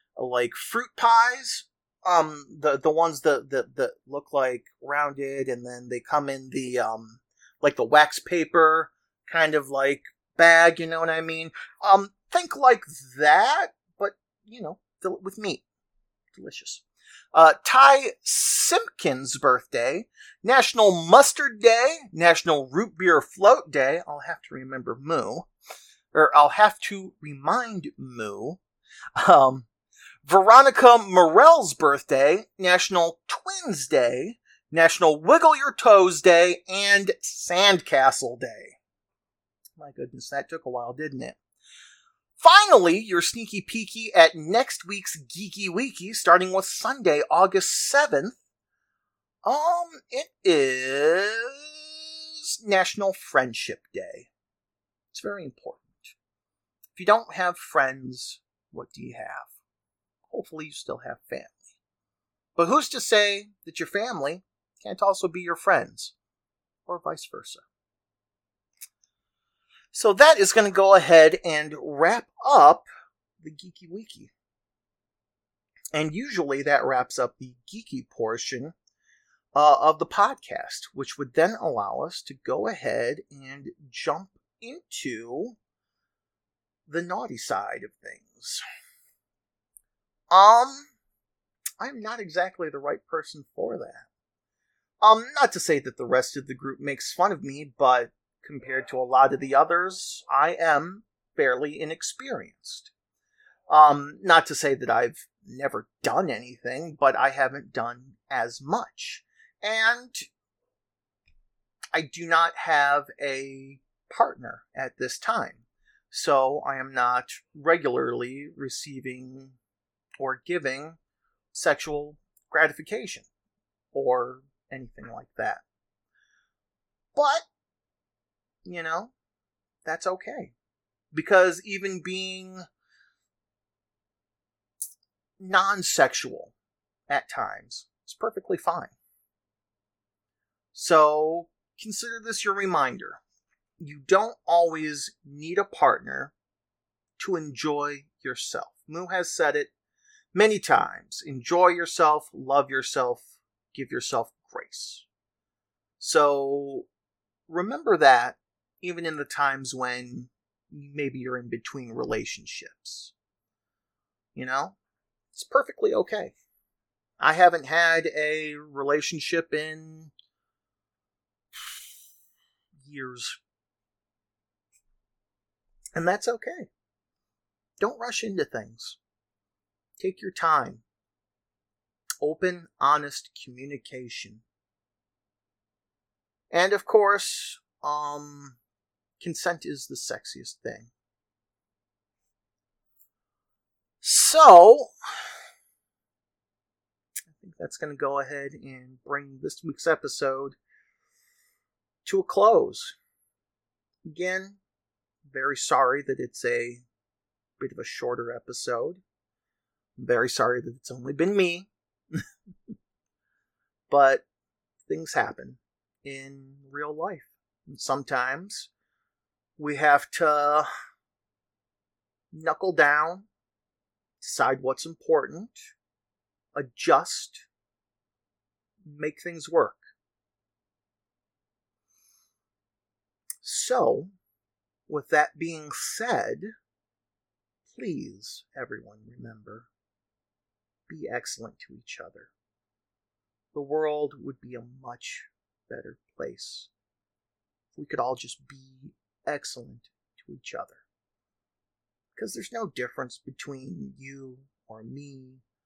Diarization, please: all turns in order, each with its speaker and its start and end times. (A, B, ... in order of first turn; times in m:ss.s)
0:00.2-0:15.6 A
0:16.3-0:16.8 A
0:17.3-0:25.5 A
0:26.1-0:28.6 A
0:29.2-0:29.7 A
0:30.2-0:38.8 A
0:39.8-0:41.4 A
0:42.4-0:48.4 A
0:49.4-0:54.3 A
0:55.1-0:56.1 A
0:57.0-0:59.5 A
1:00.3-1:01.6 A
1:02.6-1:06.1 A
1:06.9-1:07.6 A
1:09.9-1:12.8 A
1:13.4-1:14.3 A
1:15.9-1:18.7 A
1:19.5-1:25.6 A
1:26.9-1:28.6 A
1:30.3-1:30.9 A
1:31.8-1:34.0 A
1:35.0-1:42.9 A
1:43.7-1:50.3 A
1:51.9-1:59.6 A
2:00.2-2:01.0 A
2:01.5-2:03.3 A
2:03.9-2:05.6 A
2:07.1-2:07.4 A
2:08.6-2:09.1 A
2:09.8-2:10.5 A
2:11.1-2:12.7 A
2:15.4-2:16.5 A
2:17.1-2:18.9 A
2:20.7-2:23.2 A
2:23.8-2:26.3 A
2:27.2-2:29.7 A
2:30.3-2:35.0 A
2:36.0-2:36.9 A
2:37.5-2:43.1 A
2:44.3-2:44.8 A
2:45.3-2:46.3 A
2:47.2-2:50.1 A
2:52.8-2:53.4 A
2:55.9-2:56.7 A
2:57.8-2:59.0 A
3:00.0-3:00.8 A
3:02.2-3:04.4 A
3:06.5-3:08.6 A
3:09.2-3:10.9 A
3:14.0-3:14.9 A
3:17.3-3:20.6 A
3:22.0-3:22.9 A
3:24.1-3:24.6 A
3:25.3-3:26.8 A
3:27.6-3:29.0 A
3:30.0-3:32.2 A
3:33.9-3:34.2 A
3:34.9-3:38.7 A
3:39.6-3:40.7 A
3:42.3-3:43.3 A
3:44.2-3:45.6 A
3:46.5-3:47.4 A
3:48.8-3:49.8 A
3:53.4-3:54.1 A
3:54.9-3:56.5 A
3:57.7-3:59.7 A
4:00.9-4:02.3 A
4:03.5-4:06.7 A
4:07.8-4:10.8 A
4:12.2-4:15.4 A